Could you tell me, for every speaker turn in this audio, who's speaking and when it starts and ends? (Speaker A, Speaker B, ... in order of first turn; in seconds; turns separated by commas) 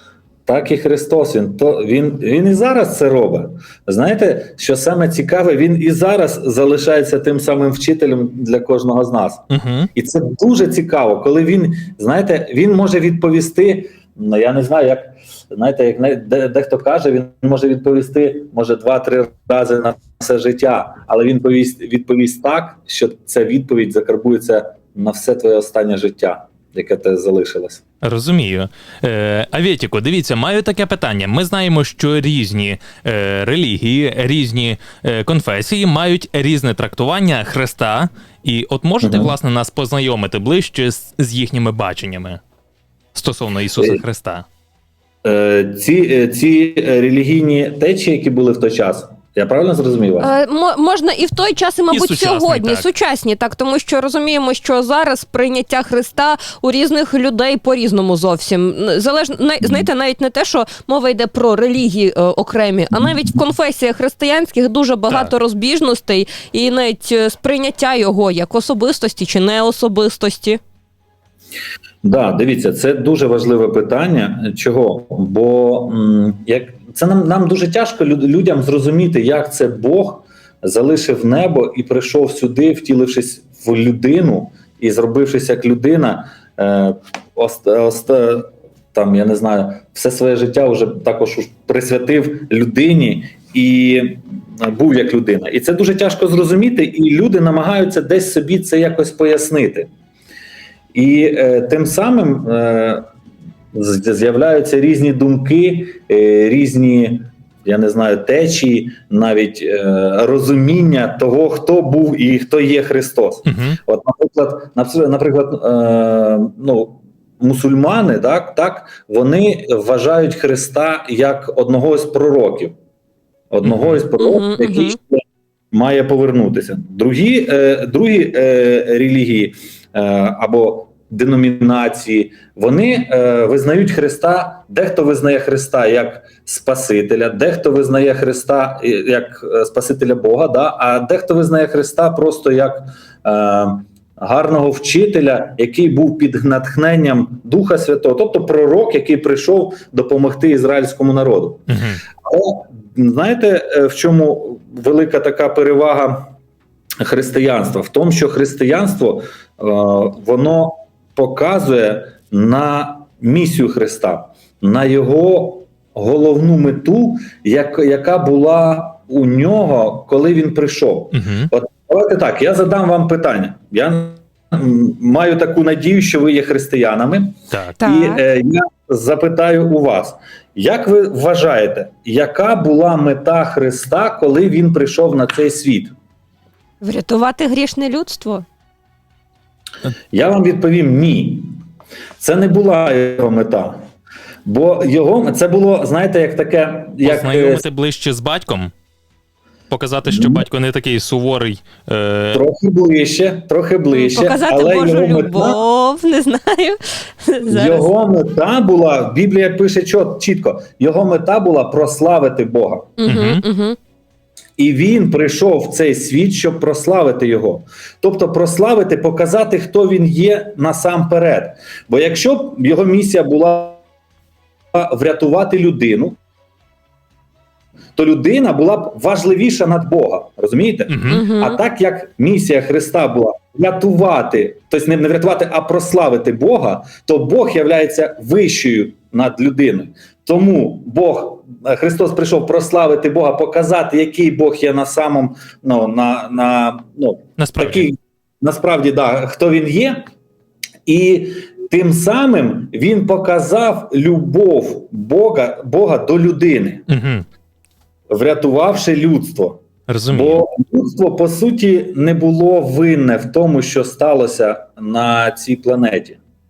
Speaker A: 0.5-27.8, Speaker B: 9.5-9.9, Speaker B: 28.0-42.4, Speaker A: 39.0-39.3, Speaker B: 43.1-44.5, Speaker A: 45.2-50.3, Speaker C: 50.2-70.6, Speaker B: 51.9-52.9, Speaker A: 72.0-99.9, Speaker A: 100.9-103.1, Speaker A: 103.7-122.8, Speaker B: 113.5-113.8, Speaker A: 123.5-151.7, Speaker B: 123.6-124.0, Speaker C: 124.2-125.0, Speaker B: 151.7-152.0, Speaker A: 152.2-156.3, Speaker A: 157.0-185.9, Speaker B: 171.1-171.5, Speaker B: 177.5-177.8, Speaker C: 177.8-178.2, Speaker C: 186.8-188.4, Speaker A: 190.1-191.6, Speaker A: 192.2-193.8, Speaker A: 194.4-197.6, Speaker B: 197.0-198.7, Speaker B: 199.7-202.4, Speaker A: 200.1-200.5, Speaker A: 202.3-205.6, Speaker C: 203.9-207.9, Speaker A: 207.5-212.9, Speaker C: 213.0-213.8, Speaker B: 213.1-213.4, Speaker A: 214.6-223.8, Speaker A: 224.7-226.2, Speaker A: 228.0-250.1, Speaker B: 230.9-231.2, Speaker C: 231.1-231.6, Speaker B: 247.4-247.8, Speaker A: 250.9-256.9, Speaker B: 256.9-257.3, Speaker A: 258.1-266.2, Speaker B: 259.9-260.4